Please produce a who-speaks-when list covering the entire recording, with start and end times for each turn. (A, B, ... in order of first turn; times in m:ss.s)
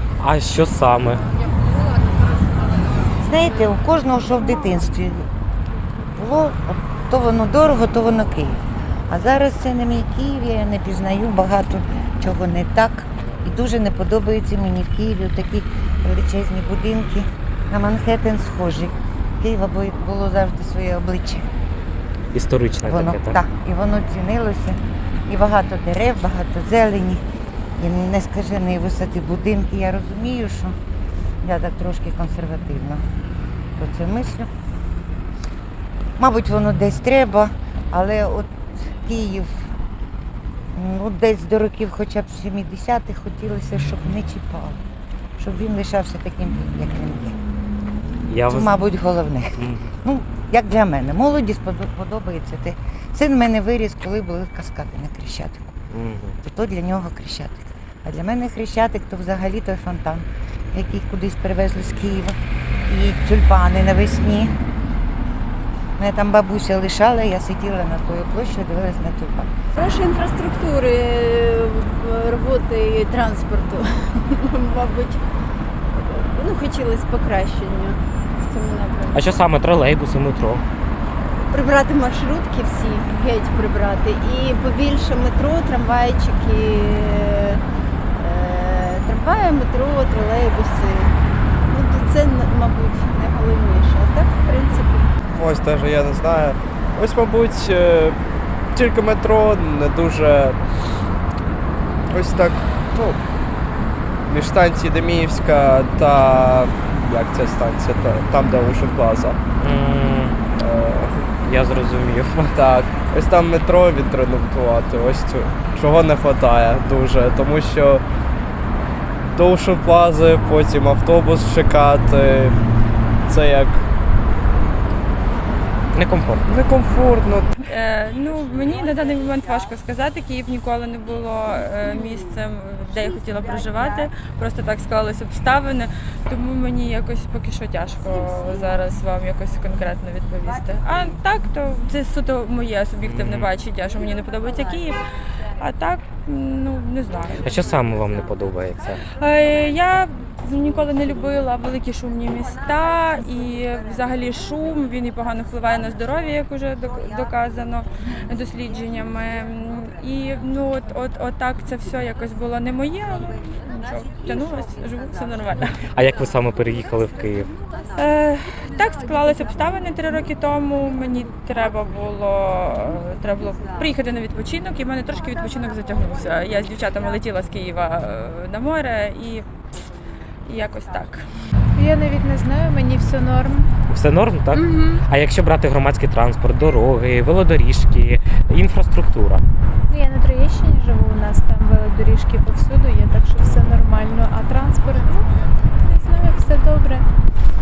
0:00.2-0:01.3 A
0:03.2-0:05.3 B
0:06.2-0:21.5 B
0:22.3-0:23.4 A
0:22.8-0:27.2 B
0:27.8-0:30.8 B
0:31.4-0:33.0 B
0:33.8-0:34.5 B
0:36.2-0:39.7 B
0:40.8-0:44.8 B
0:45.4-0:47.4 B
0:48.3-0:48.8 A
0:48.5-0:55.8 B
0:49.6-0:49.9 A
0:55.9-0:56.4 A
0:56.4-1:02.4 B
1:02.9-1:04.6 B
1:06.0-1:09.5 B
1:09.8-1:15.3 C
1:15.9-1:19.4 C
1:19.1-1:20.6 A
1:21.2-1:27.6 C
1:28.2-1:31.2 C
1:31.7-1:35.1 C
1:35.3-1:38.2 D
1:38.7-1:40.6 D
1:42.1-1:43.2 D
1:44.3-1:49.4 D
1:49.6-1:50.4 A
1:50.6-1:51.3 D
1:51.4-1:52.7 A
1:52.5-1:58.0 D
1:59.3-2:02.6 D
2:03.3-2:03.8 D
2:05.9-2:06.4 A
2:06.5-2:07.5 D
2:07.7-2:25.0 E
2:23.0-2:23.5 A
2:25.6-2:27.6 E
2:27.4-2:29.0 A
2:29.2-2:45.8 E
2:46.0-2:47.5 A
2:47.9-2:59.5 E
3:00.5-3:01.2 E
3:01.8-3:03.7 F
3:03.9-3:09.4 A
3:04.5-3:05.0 F
3:09.9-3:17.1 F
3:13.4-3:13.8 A